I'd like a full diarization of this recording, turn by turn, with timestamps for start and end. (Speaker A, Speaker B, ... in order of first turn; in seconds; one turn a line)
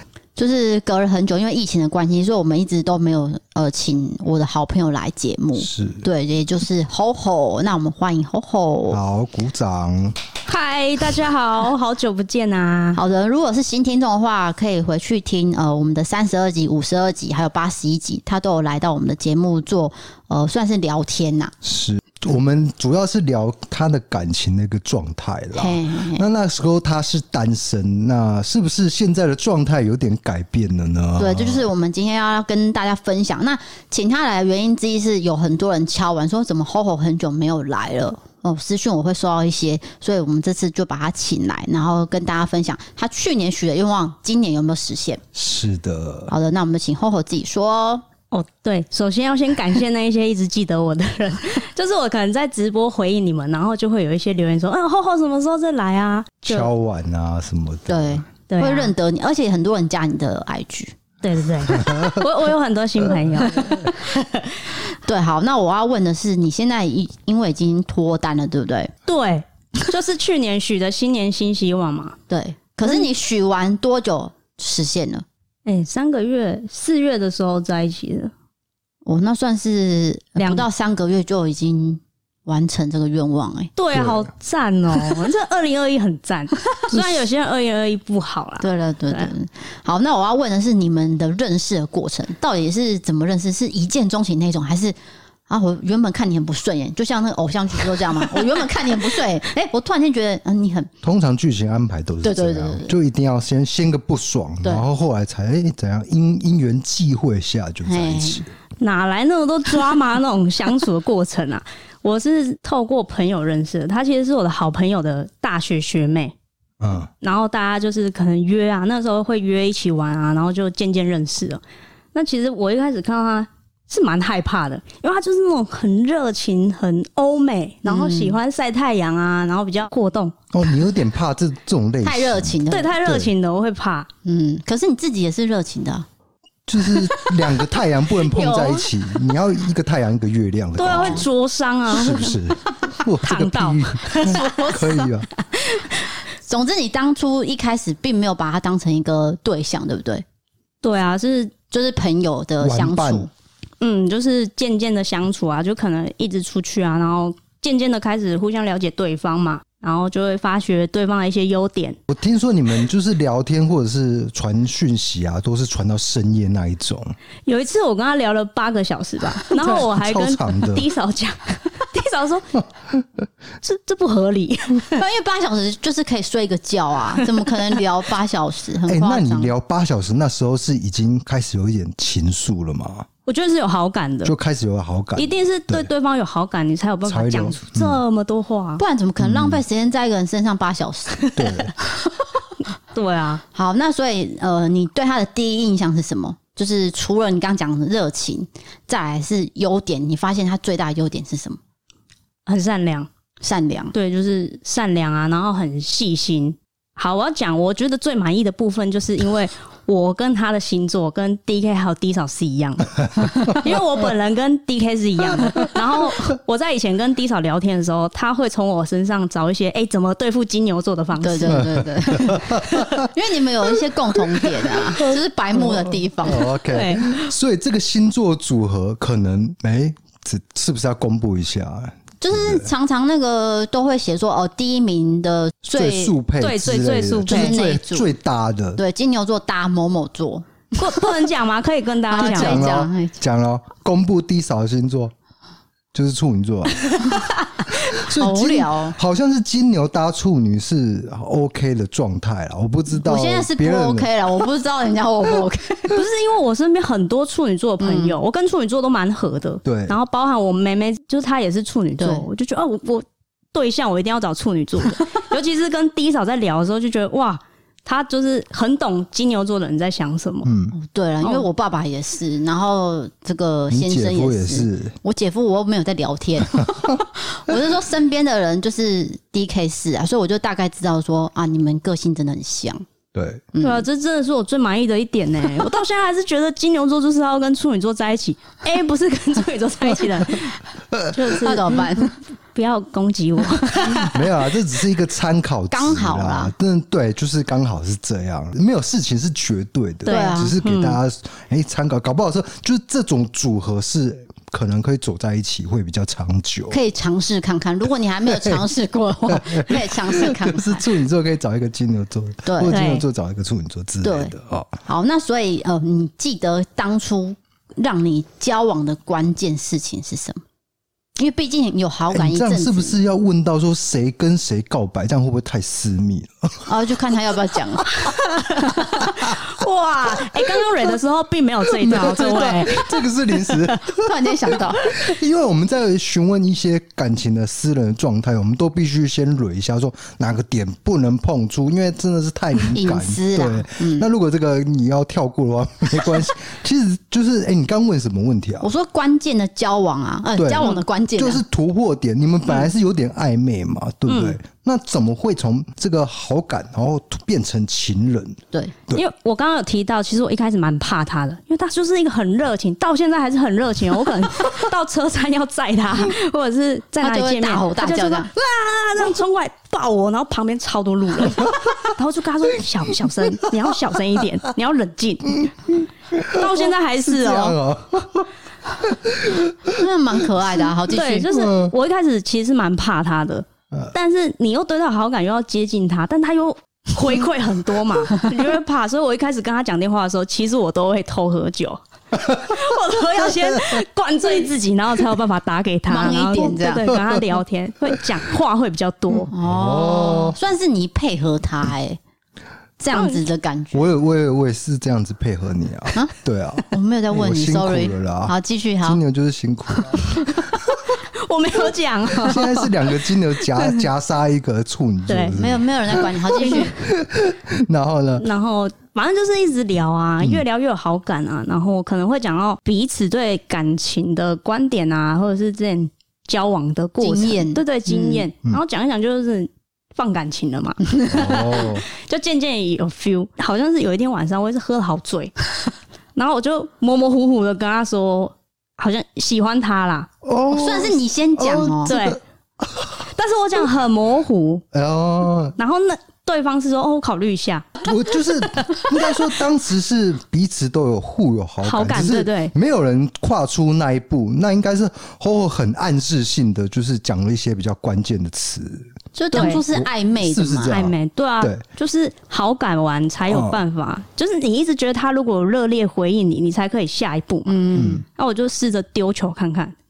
Speaker A: 0.3-9.0
Speaker B: 5.5-6.1
Speaker B: 8.9-10.2
Speaker C: 10.4-13.0
Speaker A: 12.9-21.5
Speaker B: 21.6-31.7
Speaker A: 25.5-26.2
Speaker A: 31.2-45.2
Speaker B: 45.3-46.3
Speaker A: 46.3-48.0
Speaker C: 48.3-56.7
Speaker B: 56.5-58.2
Speaker A: 57.9-61.0
Speaker C: 58.5-58.9
Speaker C: 61.2-64.6
Speaker B: 61.8-62.1
Speaker A: 65.0-68.9
Speaker C: 69.0-72.2
Speaker A: 72.3-75.2
Speaker C: 75.7-78.3
Speaker A: 79.0-83.7
Speaker C: 80.4-80.6
Speaker C: 83.8-89.3
Speaker B: 83.9-84.3
Speaker A: 88.6-95.0
Speaker A: 95.5-100.9
Speaker B: 101.0-108.5
Speaker A: 102.2-102.9
Speaker A: 107.8-108.4
Speaker C: 108.8-116.3
Speaker B: 116.8-117.1
Speaker C: 117.2-121.6
Speaker C: 122.1-130.3
Speaker A: 127.8-128.4
Speaker B: 130.5-133.3
Speaker A: 132.0-132.9
Speaker C: 132.7-134.1
Speaker A: 134.2-136.1
Speaker B: 136.7-141.3
Speaker A: 138.2-138.9
Speaker C: 140.8-144.5
Speaker A: 140.8-141.2
Speaker B: 141.9-145.3
Speaker A: 144.2-145.1
Speaker C: 145.5-145.9
Speaker A: 146.4-150.2
Speaker C: 150.8-151.5
Speaker A: 151.7-153.3
Speaker B: 152.6-153.3
Speaker C: 153.8-162.0
Speaker B: 162.1-167.2
Speaker C: 167.4-172.5
Speaker B: 169.6-170.8
Speaker C: 173.6-175.0
Speaker A: 174.9-179.5
Speaker B: 178.8-183.1
Speaker C: 183.2-184.3
Speaker B: 184.2-185.9
Speaker C: 185.2-188.8
Speaker B: 187.1-188.0
Speaker A: 188.8-192.1
Speaker B: 189.2-189.6
Speaker B: 191.3-191.7
Speaker C: 192.9-193.4
Speaker A: 193.5-201.6
Speaker C: 202.4-203.1
Speaker A: 203.4-203.9
Speaker C: 203.9-221.7
Speaker A: 221.2-226.5
Speaker B: 221.4-223.1
Speaker B: 225.6-232.7
Speaker C: 226.7-227.3
Speaker A: 232.2-236.1
Speaker B: 235.7-238.8
Speaker C: 236.4-237.6
Speaker A: 237.3-238.1
Speaker A: 238.8-240.9
Speaker C: 240.7-242.7
Speaker A: 242.1-243.1
Speaker B: 242.2-245.1
Speaker B: 245.9-247.0
Speaker B: 247.9-254.1
Speaker A: 248.1-248.9
Speaker A: 252.9-256.0
Speaker C: 255.9-270.5
Speaker A: 257.8-258.2
Speaker B: 259.6-260.0
Speaker A: 262.0-262.3
Speaker B: 270.4-270.7
Speaker A: 270.7-282.9
Speaker C: 271.2-271.4
Speaker B: 273.7-274.9
Speaker B: 283.1-283.4
Speaker A: 283.5-283.8
Speaker C: 283.6-294.3
Speaker A: 291.4-292.1
Speaker B: 293.8-306.8
Speaker A: 295.7-296.5
Speaker C: 300.0-301.0
Speaker A: 300.1-300.6
Speaker A: 306.7-310.9
Speaker B: 308.3-308.6
Speaker B: 309.3-314.8
Speaker A: 312.4-312.8
Speaker C: 312.7-313.0
Speaker A: 314.0-314.3
Speaker A: 314.9-320.4
Speaker A: 321.2-322.9
Speaker B: 322.1-326.7
Speaker A: 326.7-327.9
Speaker C: 328.0-333.8
Speaker B: 331.8-348.7
Speaker A: 333.9-334.8
Speaker A: 342.7-344.1
Speaker A: 348.6-351.4
Speaker B: 350.4-359.0
Speaker C: 354.1-354.4
Speaker C: 358.9-377.6
Speaker A: 367.0-368.3
Speaker B: 372.9-373.9
Speaker B: 375.3-379.8
Speaker A: 379.7-381.3
Speaker C: 380.9-399.3
Speaker B: 381.3-381.7
Speaker A: 395.9-396.9
Speaker B: 396.9-397.2
Speaker A: 399.3-402.0
Speaker B: 399.4-400.4
Speaker A: 402.8-403.9
Speaker C: 402.9-403.2
Speaker B: 403.7-410.3
Speaker A: 406.7-409.0
Speaker C: 410.9-413.0
Speaker B: 412.1-418.2
Speaker C: 413.5-413.8
Speaker C: 415.1-415.4
Speaker A: 415.3-416.8
Speaker C: 416.3-416.7
Speaker C: 418.2-435.5
Speaker A: 427.0-428.3
Speaker B: 431.1-431.9
Speaker C: 436.1-440.1
Speaker B: 440.2-443.0
Speaker A: 440.5-441.9
Speaker C: 441.9-442.2
Speaker C: 443.1-444.6
Speaker B: 444.7-445.6
Speaker C: 445.6-447.7
Speaker B: 447.8-461.6
Speaker C: 451.6-452.5
Speaker A: 459.1-460.8
Speaker C: 459.3-459.6
Speaker C: 460.7-469.7
Speaker B: 463.3-463.6
Speaker A: 467.4-468.0
Speaker B: 467.8-468.0